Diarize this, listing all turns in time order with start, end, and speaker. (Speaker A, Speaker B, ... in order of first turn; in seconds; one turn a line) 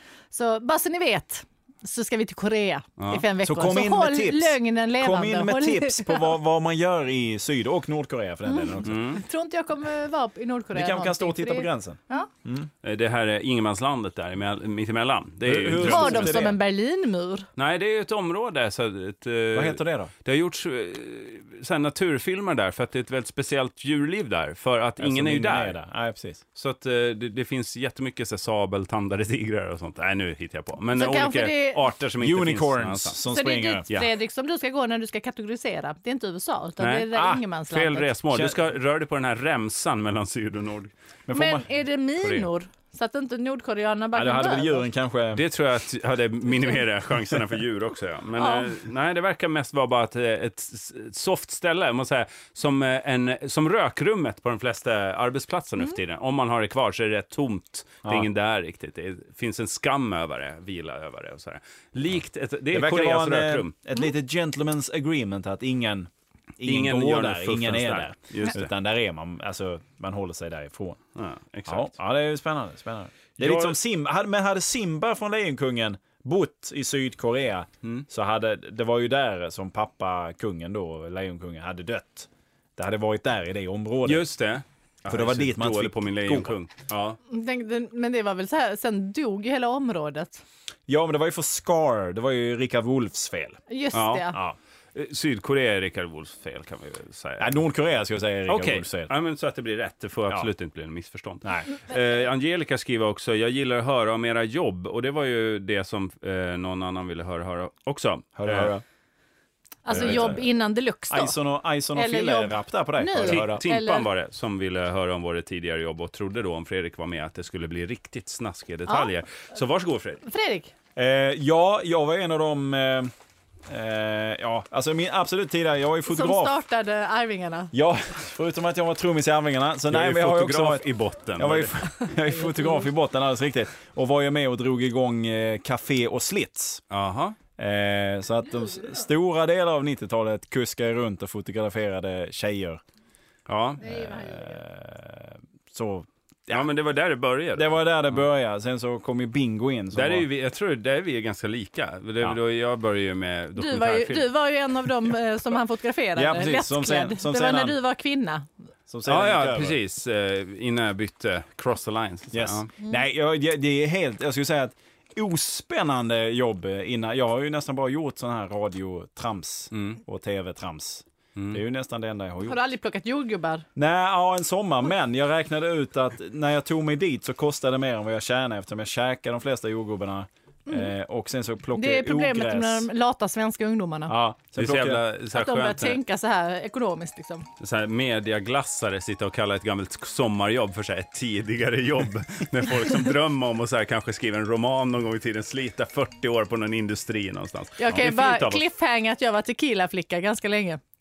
Speaker A: 0.3-6.3
Speaker B: 3.0-3.3
Speaker C: 3.4-9.0
Speaker A: 8.5-12.3
Speaker B: 8.8-9.2
Speaker C: 10.7-12.7
Speaker B: 12.8-16.5
Speaker C: 15.4-16.6
Speaker A: 15.8-17.5
Speaker B: 17.6-25.8
Speaker C: 19.5-20.1
Speaker C: 25.0-26.4
Speaker B: 26.6-33.2
Speaker A: 30.9-31.9
Speaker C: 32.2-33.8
Speaker A: 33.3-38.1
Speaker B: 36.8-40.9
Speaker C: 38.3-38.6
Speaker C: 41.3-41.6
Speaker A: 41.3-44.9
Speaker C: 42.2-42.5
Speaker C: 44.1-45.4
Speaker B: 45.3-63.7
Speaker A: 48.4-48.7
Speaker C: 62.7-71.0
Speaker B: 66.7-68.7
Speaker B: 71.2-71.9
Speaker C: 71.7-84.2
Speaker B: 73.4-73.8
Speaker B: 84.0-87.2
Speaker C: 85.1-86.5
Speaker A: 87.3-90.4
Speaker C: 90.9-93.6
Speaker A: 93.7-94.4
Speaker B: 93.9-94.4
Speaker B: 94.9-97.5
Speaker C: 97.4-99.1
Speaker B: 98.5-108.7
Speaker C: 101.4-101.7
Speaker C: 108.4-108.8
Speaker A: 109.8-111.4
Speaker C: 109.9-110.5
Speaker C: 111.1-113.6
Speaker A: 111.9-114.1
Speaker B: 113.2-120.2
Speaker A: 120.3-120.7
Speaker C: 121.0-123.1
Speaker C: 123.7-126.5
Speaker A: 126.1-127.7
Speaker C: 127.7-136.8
Speaker B: 129.9-132.1
Speaker B: 136.9-137.4
Speaker C: 137.6-142.8
Speaker B: 143.5-143.9
Speaker C: 143.8-146.7
Speaker A: 143.9-144.4
Speaker B: 146.5-147.8
Speaker C: 147.6-150.3
Speaker B: 149.9-154.3
Speaker A: 153.6-158.5
Speaker C: 156.2-157.8
Speaker C: 158.9-159.8
Speaker B: 159.1-162.7
Speaker C: 162.3-172.6
Speaker B: 169.7-170.0
Speaker A: 172.4-173.7
Speaker C: 173.8-182.9
Speaker A: 181.8-184.2
Speaker C: 184.1-185.0
Speaker B: 184.6-186.0
Speaker A: 185.3-187.5
Speaker B: 187.6-198.6
Speaker A: 197.8-200.8